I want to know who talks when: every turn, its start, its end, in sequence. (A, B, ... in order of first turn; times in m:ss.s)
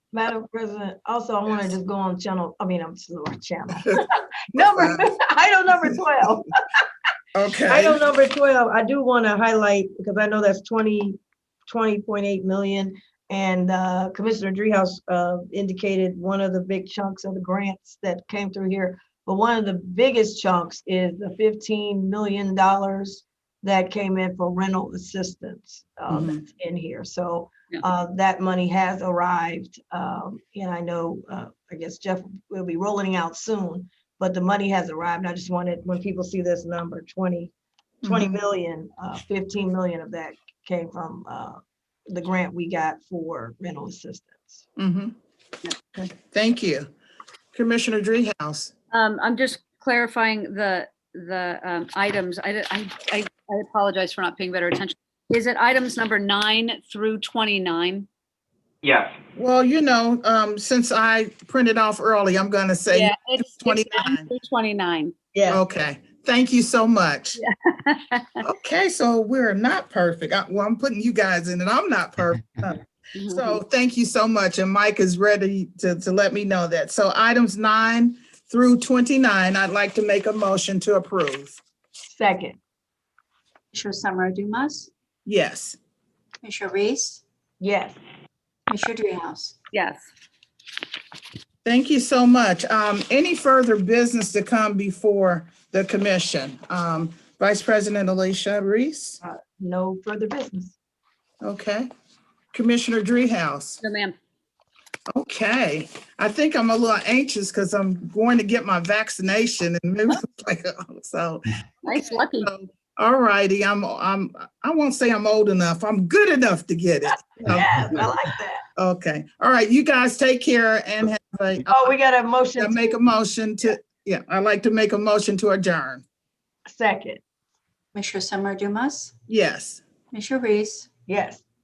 0:00.1-0:06.5 A
0:04.5-0:05.1 B
0:07.3-0:08.0 B
0:07.7-0:37.5 A
0:26.1-0:26.4 B
0:38.0-0:38.4 B
0:38.0-0:44.6 A
0:44.8-0:45.1 B
0:45.9-0:46.9 B
0:47.5-0:48.7 B
0:48.9-0:58.1 C
0:59.3-1:04.3 B
1:02.9-1:05.1 C
1:05.3-1:05.6 A
1:05.5-1:07.4 B
1:07.4-1:08.4 C
1:08.4-1:21.6 B
1:13.1-1:13.6 C
1:22.1-1:22.6 A
1:23.7-1:24.9 D
1:25.2-1:25.8 B
1:26.4-1:27.2 D
1:27.6-1:28.0 A
1:28.7-1:29.6 D
1:29.7-1:30.1 C
1:31.6-1:39.2 B
1:39.2-1:40.8 A
1:41.4-1:41.9 B
1:42.5-1:43.8 B
1:43.8-1:44.2 C
1:45.1-1:57.7 B
1:51.8-1:52.5 C
1:57.4-1:58.6 A
1:58.8-2:01.9 B
2:01.6-2:03.0 A
2:02.6-2:06.0 B
2:06.6-2:07.2 A
2:07.9-2:09.1 D
2:09.3-2:09.8 B
2:10.1-2:10.9 D
2:11.1-2:11.4 A